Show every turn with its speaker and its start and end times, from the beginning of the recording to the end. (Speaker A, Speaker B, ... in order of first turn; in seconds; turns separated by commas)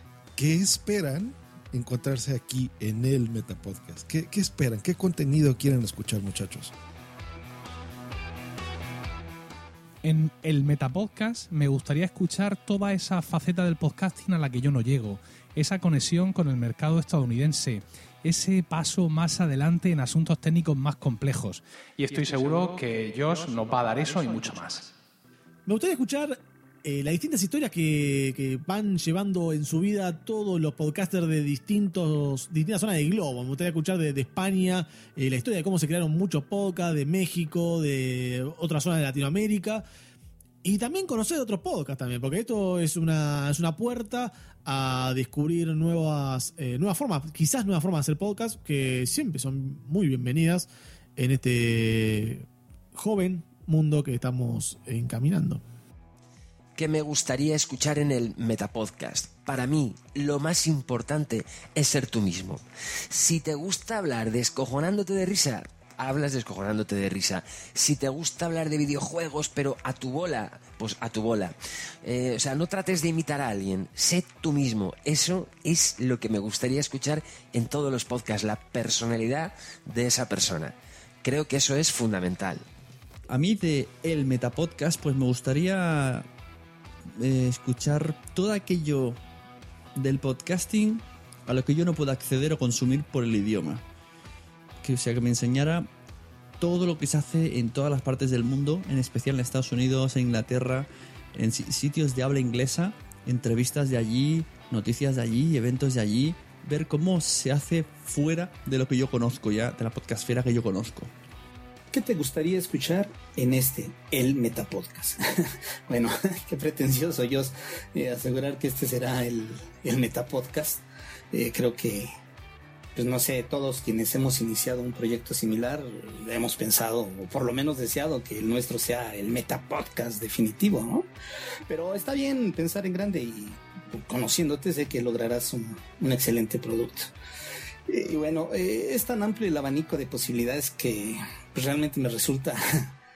Speaker A: 0.3-6.7, Speaker B: 10.0-24.9, Speaker C: 25.6-39.8, Speaker C: 40.6-55.6, Speaker D: 56.8-82.6, Speaker E: 83.3-86.3, Speaker E: 87.2-89.2, Speaker E: 89.9-93.8, Speaker E: 94.8-95.9, Speaker E: 96.6-111.1, Speaker F: 111.9-115.2, Speaker F: 115.9-122.1, Speaker F: 122.9-131.1, Speaker F: 131.7-137.1, Speaker F: 137.9-142.9